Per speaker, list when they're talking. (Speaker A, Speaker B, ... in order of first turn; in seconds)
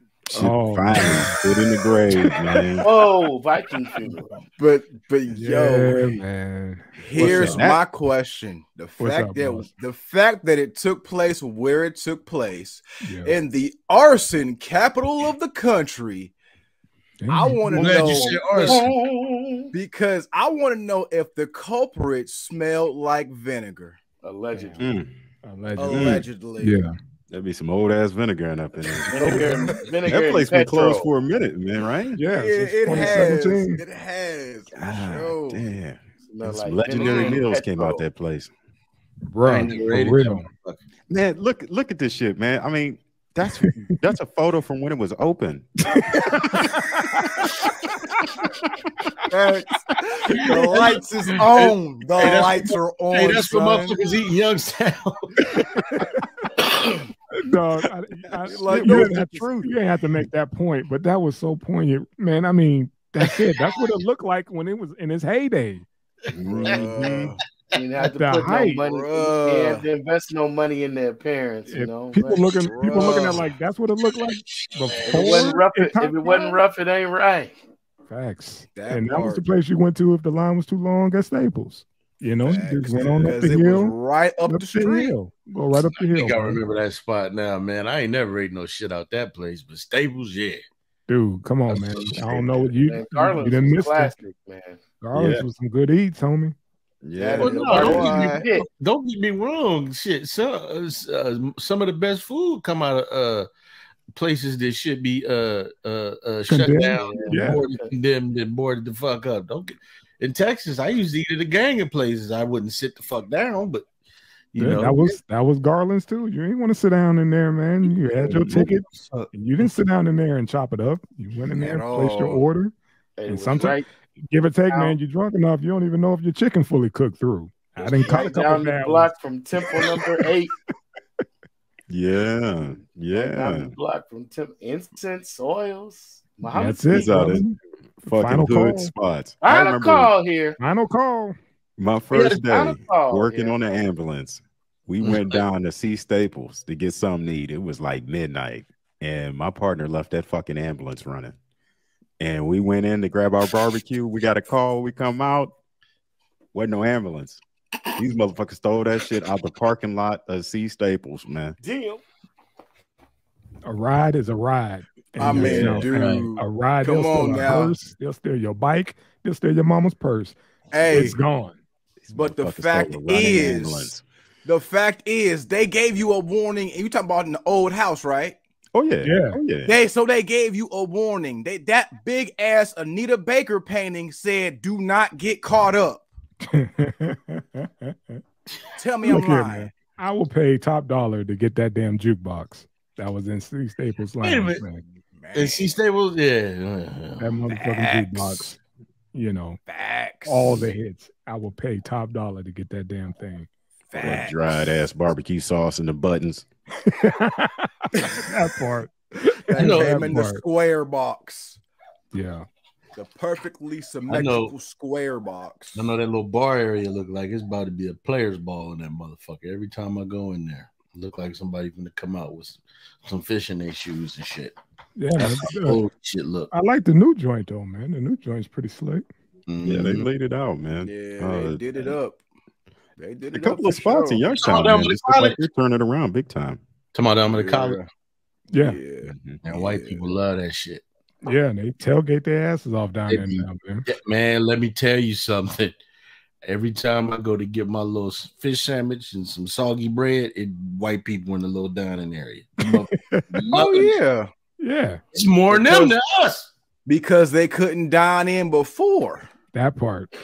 Speaker A: 0.3-2.9, 7.3-7.8, 24.8-25.1, 25.9-26.3, 27.3-32.2, 34.8-38.5, 41.1-45.7, 58.7-59.1, 66.3-67.3, 95.1-95.5, 97.0-98.1, 131.9-133.7, 136.9-137.4, 138.1-140.1, 141.8-151.4, 152.2-155.5, 156.5-157.4, 157.9-161.6, 172.1-174.0, 178.7-179.7, 204.0-206.4, 229.6-232.0, 233.3-236.6, 239.0-239.4
Speaker B: 0.4-1.4, 2.1-2.6, 5.3-7.7, 9.0-9.7, 13.0-13.3, 17.2-18.2, 24.5-24.9, 25.4-26.9, 29.3-29.6, 32.1-33.8, 39.3-40.5, 43.6-44.0, 45.9-47.9, 55.5-56.2, 57.4-65.9, 68.0-68.8, 71.7-76.6, 78.1-86.6, 91.1-94.2, 95.0-96.6, 106.5-107.6, 114.6-122.8, 123.3-129.1, 129.7-130.0, 136.5-138.9, 140.6-141.4, 163.7-171.6, 179.0-179.4, 186.5-188.2, 189.0-194.8, 197.2-198.6, 199.1-199.6, 200.2-203.5, 206.9-210.4, 212.1-212.5, 225.0-225.8, 226.5-229.1, 238.5-238.8, 241.2-243.8, 252.7-253.3, 254.6-255.0, 259.5-260.1
Speaker C: 2.8-4.3, 18.7-19.7, 24.2-24.9, 29.1-31.1, 36.2-38.0, 67.7-72.5, 75.1-77.6, 92.4-94.8, 97.2-98.7, 107.0-107.9, 123.2-123.9, 124.7-125.0, 127.8-130.5, 133.1-137.3, 139.4-140.6, 142.4-143.6, 161.6-162.0
Speaker D: 4.6-6.2, 7.0-16.3, 17.3-18.8, 19.7-24.0, 25.8-26.8, 32.3-35.7, 37.0-37.4, 49.3-54.0, 58.4-59.7, 66.5-67.4, 68.6-69.9, 72.6-73.4, 78.7-79.4, 82.4-85.2, 97.7-98.4, 121.5-122.5, 165.2-167.8, 170.7-171.2, 172.1-178.4, 179.6-186.1, 188.8-189.7, 194.9-195.7, 197.5-198.4, 199.7-200.7, 203.9-204.8, 209.5-211.6, 212.9-215.9, 230.8-232.2, 233.0-234.3, 237.3-237.9, 238.5-240.1, 253.5-254.3, 255.5-256.0, 256.9-259.3
Speaker E: 17.7-18.9, 29.2-29.4, 37.0-37.3, 39.4-40.8, 50.3-55.4, 63.2-63.6, 74.4-75.5, 86.0-90.6, 91.7-92.5, 97.4-103.5, 104.1-113.9, 114.5-115.2, 117.8-119.7, 142.1-142.4, 145.0-145.4, 165.3-166.2, 194.2-194.6, 195.3-197.3, 209.6-210.0, 214.1-214.5, 215.8-224.6, 225.2-226.5, 229.5-230.1, 234.4-235.4, 236.9-237.8, 239.4-240.8, 243.1-245.8, 246.4-253.9, 255.1-256.5